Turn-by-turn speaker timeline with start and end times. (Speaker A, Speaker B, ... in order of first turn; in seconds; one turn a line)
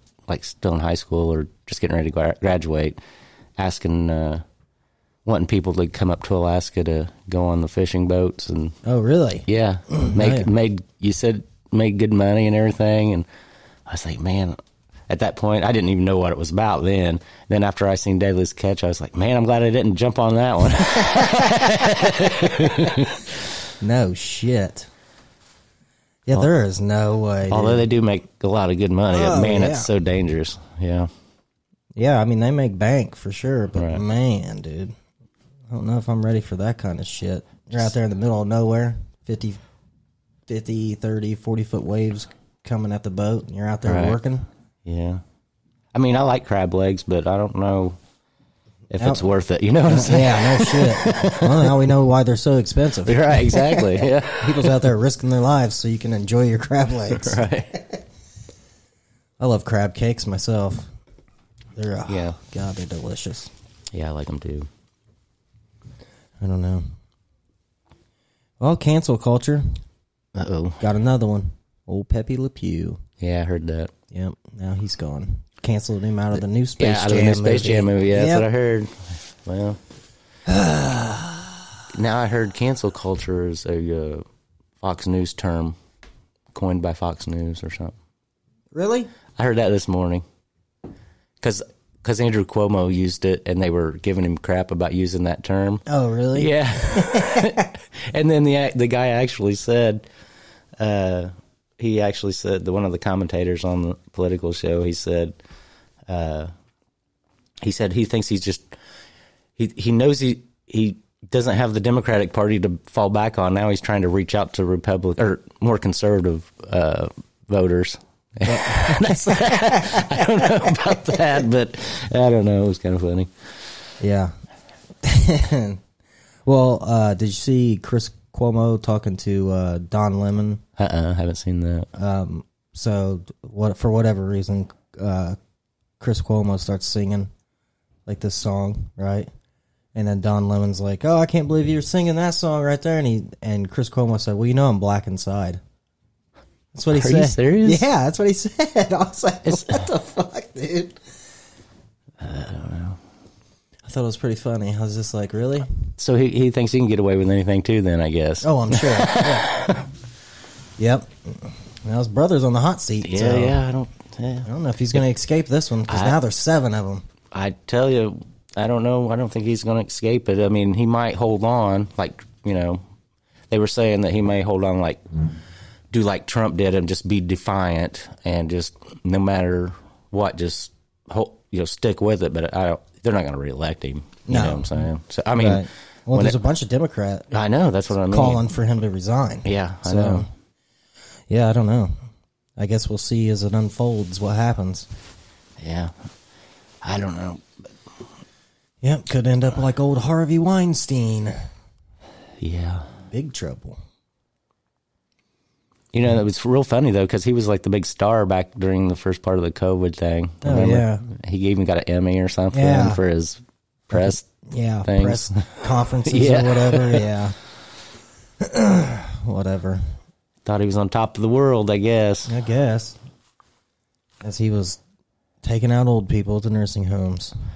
Speaker A: 0.3-3.0
Speaker A: 3.6-4.4
Speaker A: 5.2-8.8
Speaker B: 8.8-10.5
Speaker A: 9.5-13.3
Speaker A: 13.9-14.6
Speaker A: 15.1-23.3
Speaker B: 21.1-21.9
Speaker B: 22.7-23.0
Speaker B: 23.8-24.9
Speaker B: 26.3-27.9
Speaker A: 27.5-31.1
Speaker B: 29.1-29.9
Speaker B: 32.0-34.9
Speaker A: 33.8-34.0
Speaker B: 35.7-39.6
Speaker B: 40.5-44.5
Speaker A: 43.9-44.2
Speaker A: 44.9-45.2
Speaker A: 45.9-48.0
Speaker A: 48.9-51.9
Speaker B: 49.9-57.4
Speaker A: 53.0-54.9
Speaker A: 57.1-57.8
Speaker B: 59.4-60.9
Speaker B: 61.8-63.5
Speaker A: 62.1-62.4
Speaker A: 63.9-64.7
Speaker B: 66.4-66.9
Speaker B: 68.6-69.8
Speaker A: 70.3-70.8
Speaker B: 70.8-73.0
Speaker A: 73.2-73.9
Speaker B: 74.1-78.5
Speaker A: 76.8-79.8
Speaker B: 80.5-81.6
Speaker A: 81.9-84.3
Speaker A: 84.8-85.8
Speaker A: 86.5-88.0
Speaker B: 88.8-89.1
Speaker A: 89.4-90.2
Speaker A: 91.4-100.0
Speaker B: 95.9-97.7
Speaker A: 100.8-105.4
Speaker A: 106.1-106.5
Speaker A: 107.6-108.7
Speaker A: 109.6-123.3
Speaker B: 118.5-120.5
Speaker B: 124.0-124.3
Speaker B: 125.0-125.8
Speaker B: 126.5-130.6
Speaker A: 130.8-131.9
Speaker B: 132.0-135.4
Speaker B: 136.0-137.3
Speaker B: 138.1-139.3
Speaker B: 139.9-145.6
Speaker B: 146.7-151.0
Speaker A: 146.9-147.9
Speaker A: 149.5-149.9
Speaker A: 152.2-153.0
Speaker B: 153.9-155.7
Speaker A: 156.0-159.9
Speaker B: 158.4-159.6
Speaker B: 160.8-163.6
Speaker A: 163.0-164.5
Speaker B: 164.4-167.1
Speaker A: 165.9-166.2
Speaker A: 167.3-172.8
Speaker A: 173.5-175.0
Speaker A: 175.9-186.4
Speaker B: 184.3-187.3
Speaker A: 187.3-188.4
Speaker B: 188.0-190.3
Speaker A: 189.4-190.3
Speaker B: 191.3-191.9
Speaker B: 192.6-194.9
Speaker A: 195.6-195.9
Speaker A: 196.8-197.6
Speaker B: 198.8-201.3
Speaker A: 202.4-202.9
Speaker B: 203.1-203.8
Speaker A: 205.9-214.3
Speaker B: 210.4-211.1
Speaker B: 212.5-213.0
Speaker B: 213.9-217.4
Speaker A: 214.8-217.1
Speaker B: 218.4-219.8
Speaker A: 220.4-222.3
Speaker B: 222.3-223.0
Speaker B: 224.2-224.8
Speaker B: 225.4-227.3